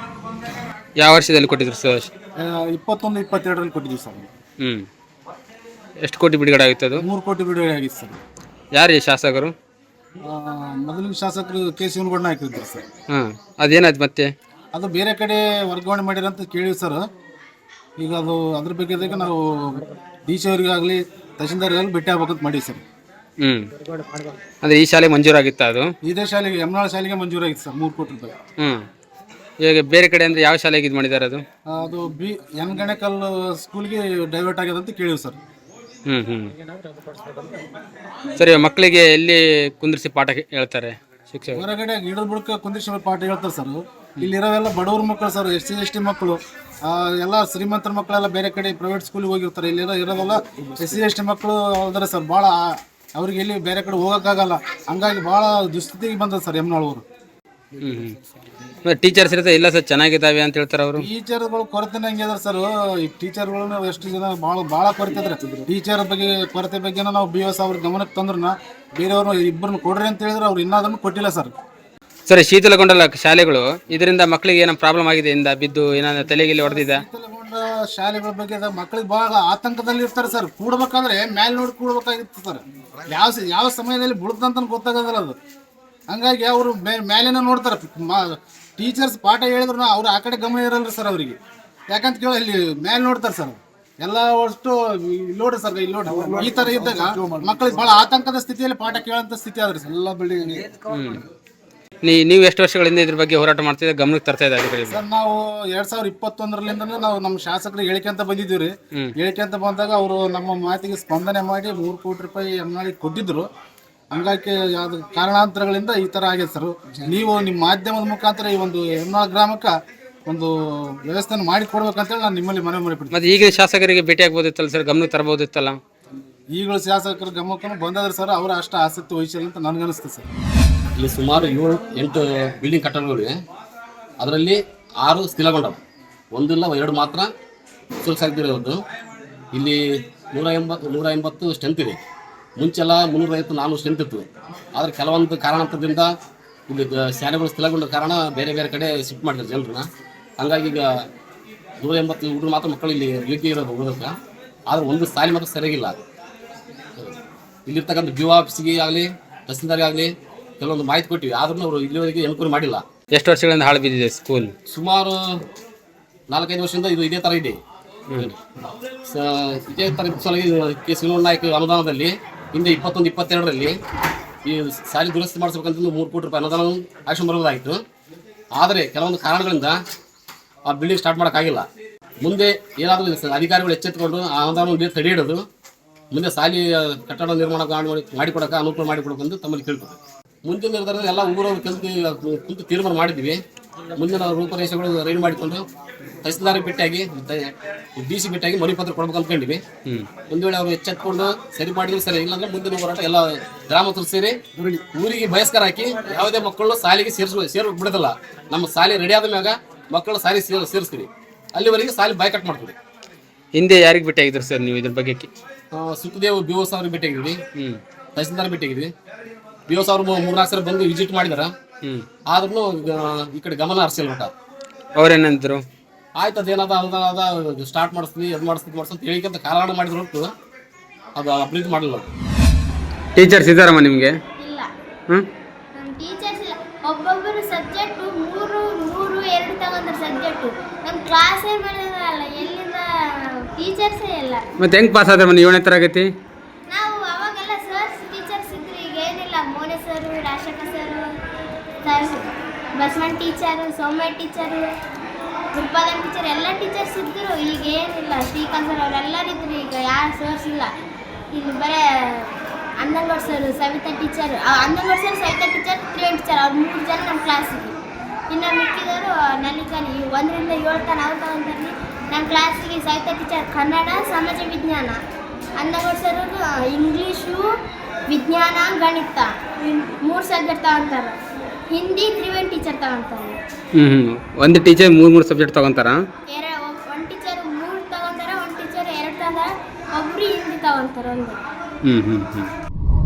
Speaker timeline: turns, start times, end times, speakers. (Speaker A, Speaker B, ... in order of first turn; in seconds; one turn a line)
Speaker A: 1.0-2.1
Speaker B: 2.4-4.3
Speaker A: 4.6-4.9
Speaker A: 6.0-7.0
Speaker B: 7.0-8.2
Speaker A: 8.7-9.5
Speaker B: 10.2-12.8
Speaker A: 13.1-14.3
Speaker B: 14.7-17.0
Speaker B: 18.0-22.8
Speaker A: 24.6-25.9
Speaker B: 26.0-28.4
Speaker A: 29.6-31.4
Speaker B: 31.7-35.4
Speaker A: 36.1-36.5
Speaker A: 38.4-41.6
Speaker B: 41.5-57.0
Speaker A: 57.8-58.1
Speaker A: 58.9-61.1
Speaker B: 61.0-71.5
Speaker A: 72.3-77.0
Speaker B: 76.3-85.4
Speaker B: 86.1-91.4
Speaker B: 91.9-100.7
Speaker A: 100.9-101.2
Speaker A: 102.0-105.0
Speaker B: 104.9-113.5
Speaker B: 114.1-119.7
Speaker B: 120.2-123.2
Speaker A: 123.1-125.8
Speaker B: 126.5-130.3
Speaker C: 131.0-133.3
Speaker C: 134.2-135.8
Speaker C: 136.3-137.3
Speaker C: 138.0-138.8
Speaker C: 140.3-142.0
Speaker C: 142.6-146.1
Speaker C: 146.7-149.9
Speaker C: 150.4-150.9
Speaker C: 151.8-154.1
Speaker C: 154.7-156.0
Speaker C: 157.7-162.8
Speaker A: 163.1-164.5
Speaker C: 164.7-165.2
Speaker C: 166.3-167.6
Speaker C: 169.1-173.7
Speaker C: 174.4-177.8
Speaker C: 178.6-179.8
Speaker C: 180.7-181.7
Speaker C: 182.2-185.4
Speaker C: 186.1-193.4
Speaker C: 194.0-195.7
Speaker C: 196.2-199.6
Speaker C: 200.3-204.4
Speaker C: 204.9-212.8
Speaker A: 213.5-215.3
Speaker C: 215.7-217.4
Speaker C: 218.1-218.9
Speaker C: 219.7-221.5
Speaker C: 222.3-224.3
Speaker A: 225.0-225.6
Speaker C: 226.2-230.3
Speaker C: 231.2-232.1
Speaker A: 233.2-234.1
Speaker D: 234.4-234.7
Speaker D: 235.8-244.5
Speaker A: 244.6-246.1
Speaker D: 246.7-251.1
Speaker D: 251.8-254.7
Speaker D: 255.5-260.7
Speaker D: 261.3-267.8
Speaker D: 268.3-275.0
Speaker D: 275.6-277.4
Speaker D: 278.1-281.1
Speaker D: 281.7-283.4
Speaker A: 283.8-286.0
Speaker D: 286.3-291.4
Speaker A: 291.9-292.5